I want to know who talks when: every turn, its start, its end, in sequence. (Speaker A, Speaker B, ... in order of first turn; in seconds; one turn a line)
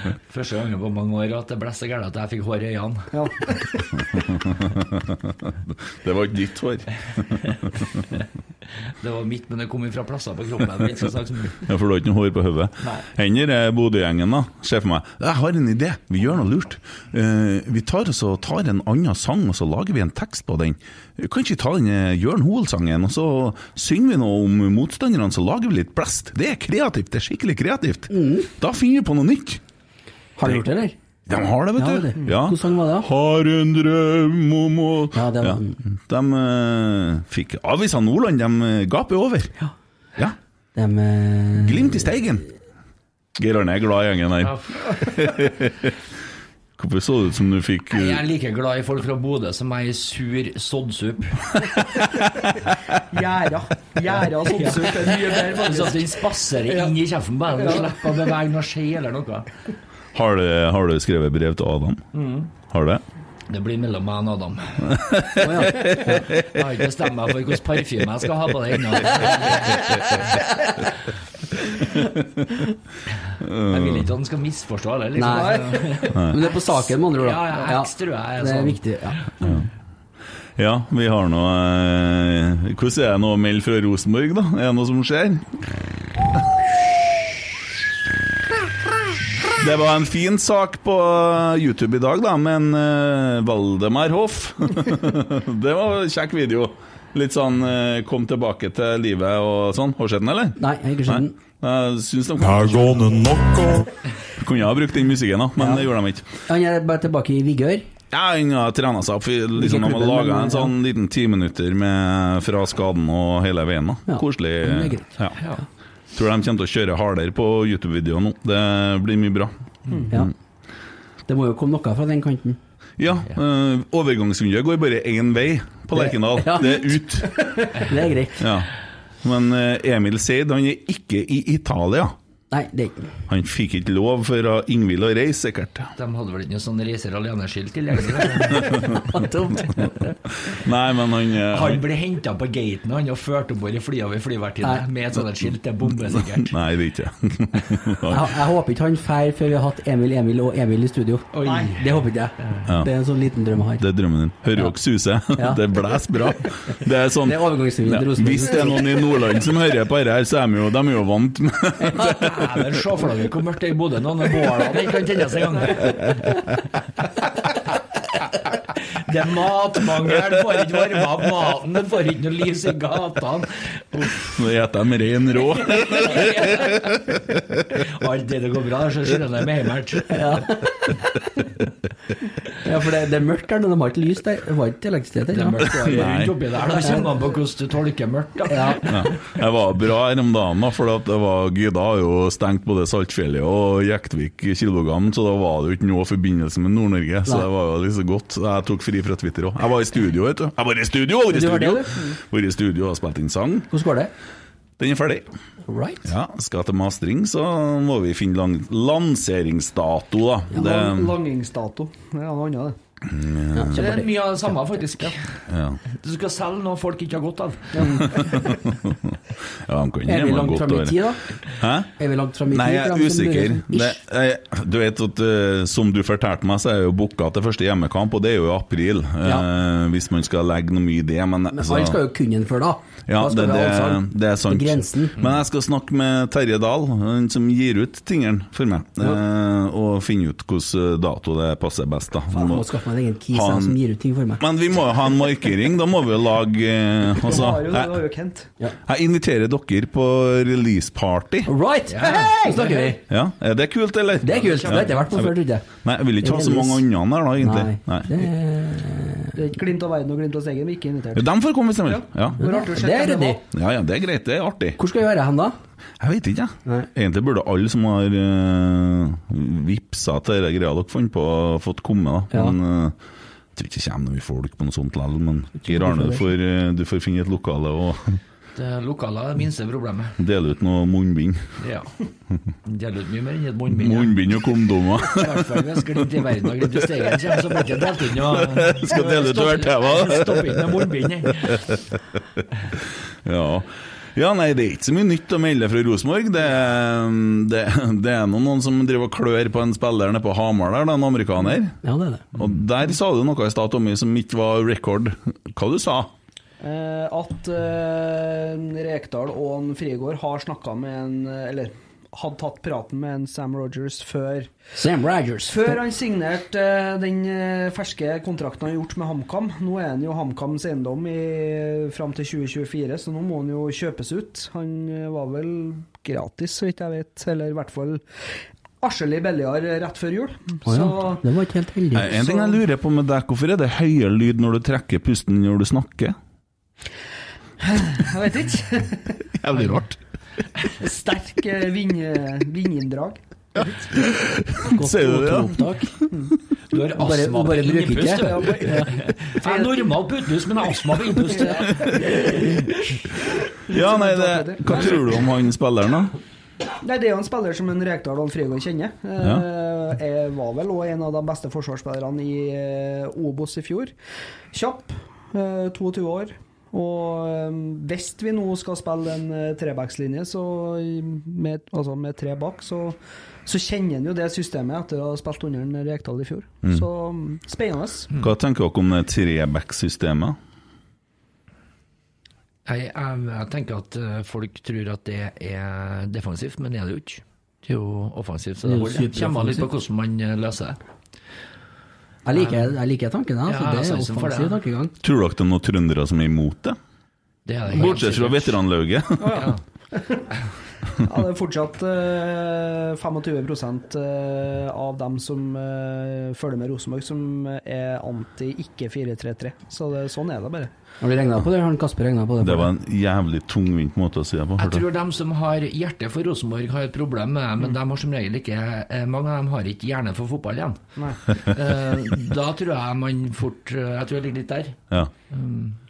Speaker A: 0.3-3.1
Speaker B: 3.1-3.8
Speaker C: 4.0-7.5
Speaker A: 9.0-11.7
Speaker C: 11.6-29.6
Speaker D: 28.1-28.5
Speaker D: 30.4-30.9
Speaker C: 31.3-39.5
Speaker D: 31.8-33.1
Speaker D: 35.1-35.8
Speaker D: 40.8-42.1
Speaker C: 41.6-42.5
Speaker C: 43.4-46.0
Speaker A: 44.4-44.8
Speaker C: 46.8-48.2
Speaker A: 47.9-51.5
Speaker C: 52.0-52.5
Speaker B: 53.1-57.0
Speaker A: 54.1-59.5
Speaker B: 57.5-58.2
Speaker C: 60.1-62.1
Speaker A: 62.1-62.5
Speaker C: 62.7-63.0
Speaker A: 63.5-65.0
Speaker C: 64.8-66.6
Speaker D: 65.4-66.1
Speaker A: 66.4-70.4
Speaker C: 72.0-72.6
Speaker C: 73.4-74.1
Speaker A: 73.7-76.3
Speaker D: 75.2-79.5
Speaker B: 75.3-76.1
Speaker A: 77.1-78.8
Speaker C: 80.6-85.6
Speaker C: 89.5-103.4
Speaker D: 100.6-101.4
Speaker C: 104.4-106.3
Speaker D: 105.6-105.8
Speaker D: 106.5-107.8
Speaker C: 108.1-115.4
Speaker D: 109.6-110.7
Speaker D: 114.1-115.1
Speaker C: 116.1-119.5
Speaker D: 121.3-122.6
Speaker C: 123.0-127.4
Speaker D: 126.0-127.0
Speaker D: 127.6-128.5
Speaker C: 128.4-128.7
Speaker C: 129.2-132.2
Speaker D: 132.5-133.1
Speaker C: 133.3-135.9
Speaker A: 136.0-139.0
Speaker C: 138.6-138.9
Speaker D: 139.0-139.8
Speaker C: 140.4-141.8
Speaker A: 141.5-146.6
Speaker C: 146.3-148.3
Speaker D: 148.1-153.8
Speaker A: 151.3-152.7
Speaker B: 151.4-151.8
Speaker C: 152.7-152.9
Speaker C: 153.8-162.5
Speaker D: 155.3-155.6
Speaker D: 157.2-158.8
Speaker A: 162.0-166.2
Speaker A: 168.9-174.3
Speaker C: 174.2-177.7
Speaker A: 175.5-177.2
Speaker A: 177.8-180.4
Speaker D: 180.1-180.9
Speaker D: 182.6-185.9
Speaker A: 185.3-189.1
Speaker C: 185.7-186.3
Speaker D: 186.8-187.1
Speaker D: 188.5-188.8
Speaker C: 188.9-203.7
Speaker D: 201.3-202.0
Speaker D: 203.7-204.1
Speaker C: 204.8-205.3
Speaker D: 205.7-206.1
Speaker C: 206.1-211.2
Speaker B: 210.5-212.8
Speaker C: 213.1-213.9
Speaker D: 213.5-214.2
Speaker A: 213.8-218.2
Speaker C: 215.5-215.8
Speaker B: 217.8-218.4
Speaker C: 217.8-221.9
Speaker D: 220.1-221.2
Speaker D: 222.0-224.0
Speaker C: 222.5-232.0
Speaker D: 231.5-235.2
Speaker C: 233.1-242.7
Speaker D: 242.3-244.4
Speaker C: 243.3-243.8
Speaker C: 244.4-248.0
Speaker B: 247.2-248.5
Speaker C: 248.9-251.5
Speaker D: 251.5-253.0
Speaker A: 251.9-252.8
Speaker B: 252.0-252.9
Speaker C: 253.1-258.1
Speaker D: 254.2-255.7
Speaker B: 254.4-255.0
Speaker D: 256.2-256.9
Speaker D: 257.4-259.4
Speaker B: 259.4-261.3
Speaker C: 261.1-262.4
Speaker B: 261.9-263.4
Speaker D: 262.4-263.4
Speaker C: 263.5-264.8
Speaker D: 264.8-265.6
Speaker C: 266.0-272.9
Speaker C: 273.6-278.2
Speaker D: 275.6-276.3
Speaker A: 278.6-280.2
Speaker C: 280.2-281.4
Speaker A: 281.6-281.9
Speaker A: 282.6-284.3
Speaker C: 283.7-285.7
Speaker A: 285.0-291.7
Speaker C: 288.2-291.9
Speaker C: 293.2-301.8
Speaker D: 301.8-302.3
Speaker C: 302.3-306.1
Speaker B: 306.6-314.5
Speaker D: 314.8-315.8
Speaker B: 315.5-328.0
Speaker B: 328.8-331.2
Speaker D: 330.7-332.1
Speaker C: 331.9-336.2
Speaker B: 332.1-332.6
Speaker B: 337.6-339.2
Speaker C: 339.3-340.0
Speaker B: 340.8-343.7
Speaker C: 343.6-346.2
Speaker D: 344.6-345.9
Speaker A: 346.7-352.5
Speaker D: 346.9-348.9
Speaker B: 348.2-349.9
Speaker B: 351.3-352.3
Speaker B: 353.7-355.0
Speaker C: 353.7-356.1
Speaker B: 356.8-363.9
Speaker C: 359.2-359.5
Speaker B: 364.5-378.1
Speaker C: 378.2-380.4
Speaker A: 382.7-390.8
Speaker D: 388.6-389.7
Speaker D: 392.3-394.9
Speaker A: 392.3-392.7
Speaker A: 393.5-394.6
Speaker C: 395.0-396.8
Speaker A: 397.5-398.6
Speaker C: 397.7-399.5
Speaker B: 399.2-400.3
Speaker B: 401.0-410.7
Speaker D: 411.0-412.7
Speaker C: 412.4-414.9
Speaker A: 414.6-420.8
Speaker A: 421.4-424.8
Speaker A: 425.3-425.8